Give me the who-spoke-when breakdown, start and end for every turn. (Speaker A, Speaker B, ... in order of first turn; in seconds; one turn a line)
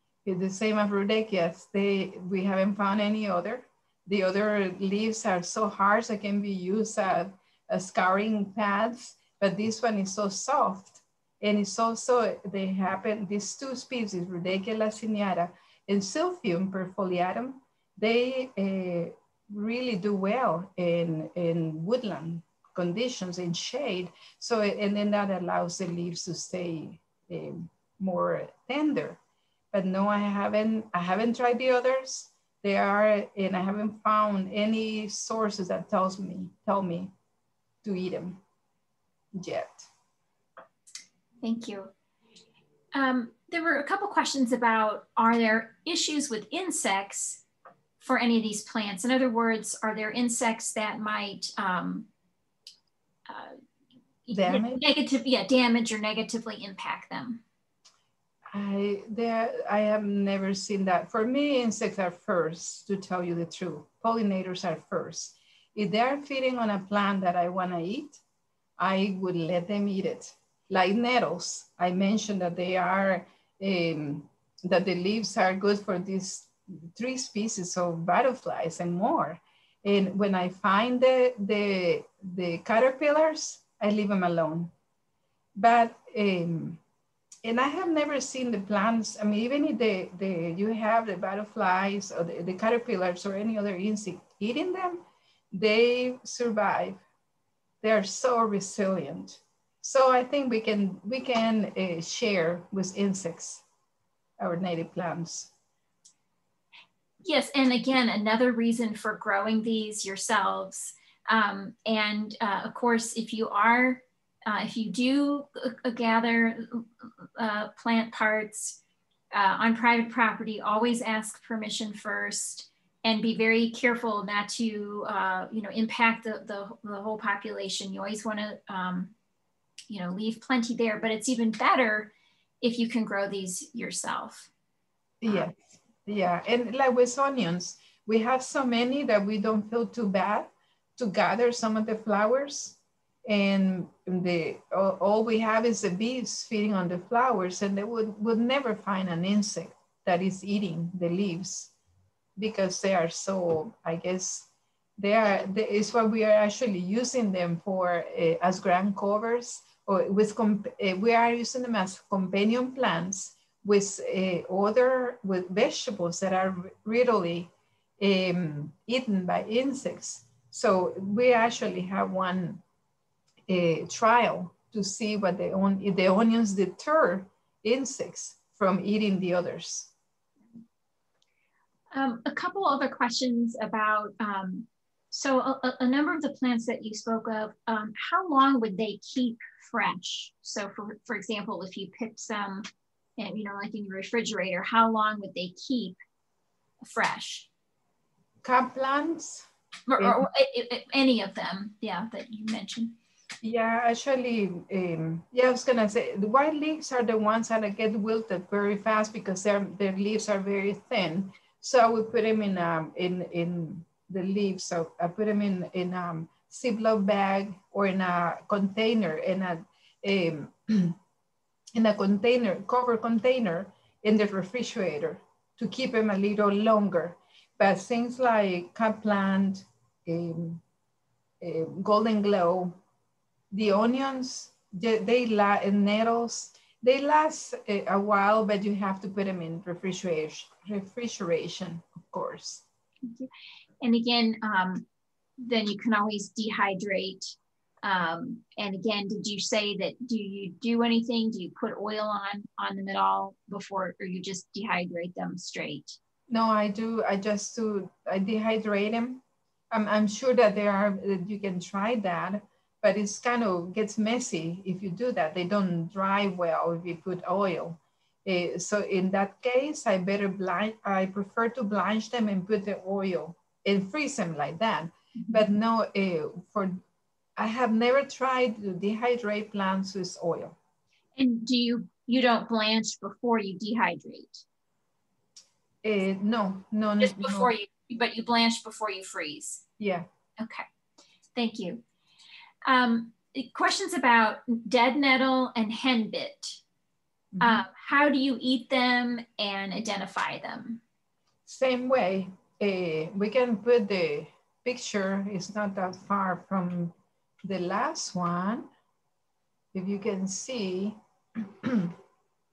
Speaker A: 0.2-29.2
Speaker A: 29.7-37.1
Speaker A: 37.8-38.4
Speaker A: 39.4-39.9
Speaker B: 41.4-41.9
Speaker B: 42.9-47.4
Speaker B: 48.0-52.1
Speaker B: 53.3-53.6
Speaker B: 54.3-57.4
Speaker A: 54.3-54.8
Speaker A: 58.5-68.2
Speaker A: 68.8-84.7
Speaker A: 85.5-86.8
Speaker A: 87.4-97.0
Speaker A: 97.8-103.6
Speaker A: 104.4-105.5
Speaker B: 107.2-118.8
Speaker B: 119.3-129.1
Speaker B: 129.9-134.5
Speaker A: 135.2-151.7
Speaker A: 152.4-172.6
Speaker A: 173.5-179.9
Speaker B: 181.9-192.7
Speaker B: 193.2-196.0
Speaker B: 196.8-197.5
Speaker A: 198.4-199.5
Speaker B: 199.9-202.9
Speaker A: 200.0-200.3
Speaker A: 203.4-221.0
Speaker A: 221.8-230.6
Speaker A: 231.4-232.8
Speaker A: 233.5-242.6
Speaker B: 243.0-243.3
Speaker B: 243.8-244.9
Speaker B: 245.4-256.0
Speaker A: 256.3-276.8
Speaker A: 277.4-280.6
Speaker B: 281.2-284.4
Speaker A: 285.8-287.5
Speaker B: 287.0-289.6
Speaker A: 289.8-290.1
Speaker B: 290.4-290.6
Speaker B: 291.4-291.8
Speaker B: 292.6-296.6
Speaker A: 297.3-297.7
Speaker B: 297.4-300.8
Speaker A: 301.5-306.9
Speaker A: 307.4-308.7
Speaker A: 309.7-311.9